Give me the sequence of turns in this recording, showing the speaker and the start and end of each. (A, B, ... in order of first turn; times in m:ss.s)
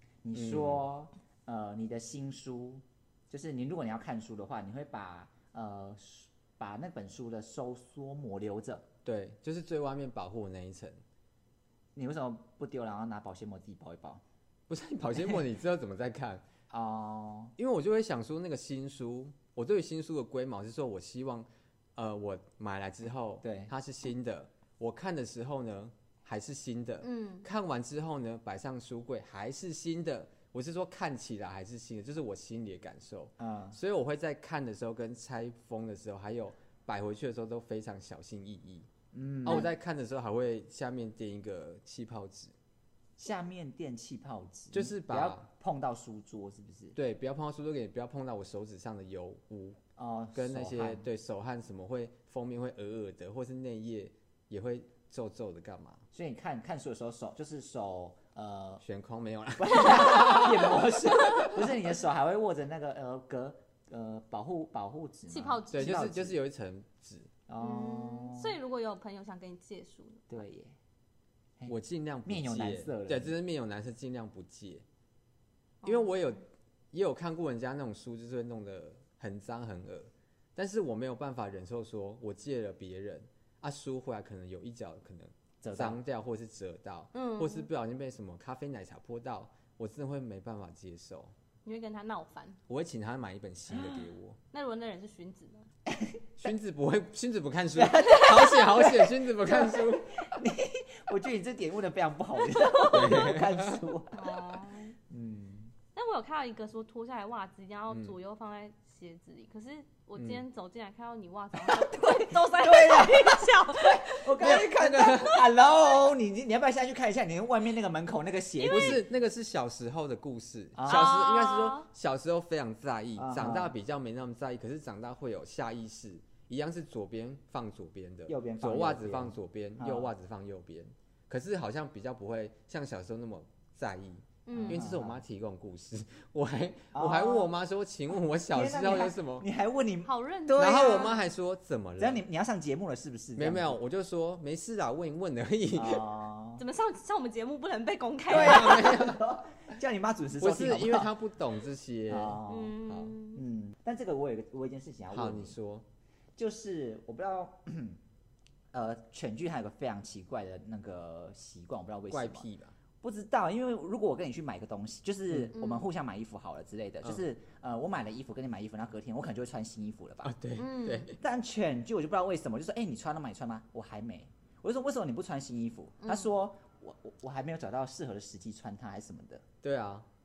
0:00.2-0:08.9 A
0:00.4-0:00.8 B
0:09.0-0:11.0 B
0:12.0-0:14.2 A
0:14.7-0:16.4 B
0:15.2-0:15.4 A
0:16.7-0:17.5 A
0:17.6-0:38.9 B
0:23.4-0:23.7 A
0:27.0-0:27.5 C
0:33.4-0:33.8 A
0:39.1-0:39.7 A
0:39.4-0:42.5 B
0:43.2-0:47.0 A
0:44.7-0:45.5 B
0:47.0-0:49.8 B
0:50.0-0:51.1 A
0:50.4-0:56.0 B
0:56.1-0:58.8 A
0:58.8-1:01.6 B
0:59.6-1:06.4 A
1:05.3-1:06.1 C
1:05.7-1:07.3 B
1:07.5-1:08.6 A
1:07.6-1:10.3 C
1:10.3-1:10.8 A
1:11.6-1:13.4 A
1:11.7-1:14.8 B
1:15.8-1:16.3 C
1:15.8-1:31.3 B
1:25.6-1:26.0 A
1:27.1-1:27.7 C
1:31.6-1:32.6 C
1:32.7-1:34.4 B
1:34.5-1:35.7 C
1:35.9-1:36.5 A
1:36.4-1:40.3 B
1:37.7-1:44.3 A
1:38.1-1:38.6 C
1:42.9-1:43.8 B
1:44.1-1:45.0 C
1:45.1-1:45.7 A
1:46.0-1:55.3 C
1:51.6-1:59.0 A
1:54.4-1:55.4 B
1:58.6-1:59.0 C
1:58.7-2:19.5 B
2:00.8-2:01.1 A
2:00.9-2:01.9 C
2:03.2-2:03.7 A
2:08.3-2:10.1 A
2:14.5-2:14.8 C
2:14.5-2:15.2 A
2:16.9-2:17.5 A
2:18.5-2:21.2 A
2:20.0-2:21.2 C
2:20.6-2:22.2 B
2:22.0-2:23.8 A
2:23.4-2:26.0 B
2:25.7-2:26.6 A
2:26.6-2:29.0 C
2:28.3-2:29.2 B
2:28.3-2:31.1 A
2:30.4-2:33.1 B
2:32.1-2:32.8 A
2:32.5-2:33.4 C
2:33.3-2:35.6 A
2:35.1-2:35.8 B
2:36.4-2:38.0 A
2:38.7-2:42.5 A
2:42.1-2:42.7 B
2:43.0-2:50.3 A
2:45.6-2:45.9 C
2:50.2-2:51.2 B
2:50.6-2:51.1 C
2:51.2-2:59.4 A
2:56.0-2:56.3 C
2:59.6-3:00.1 B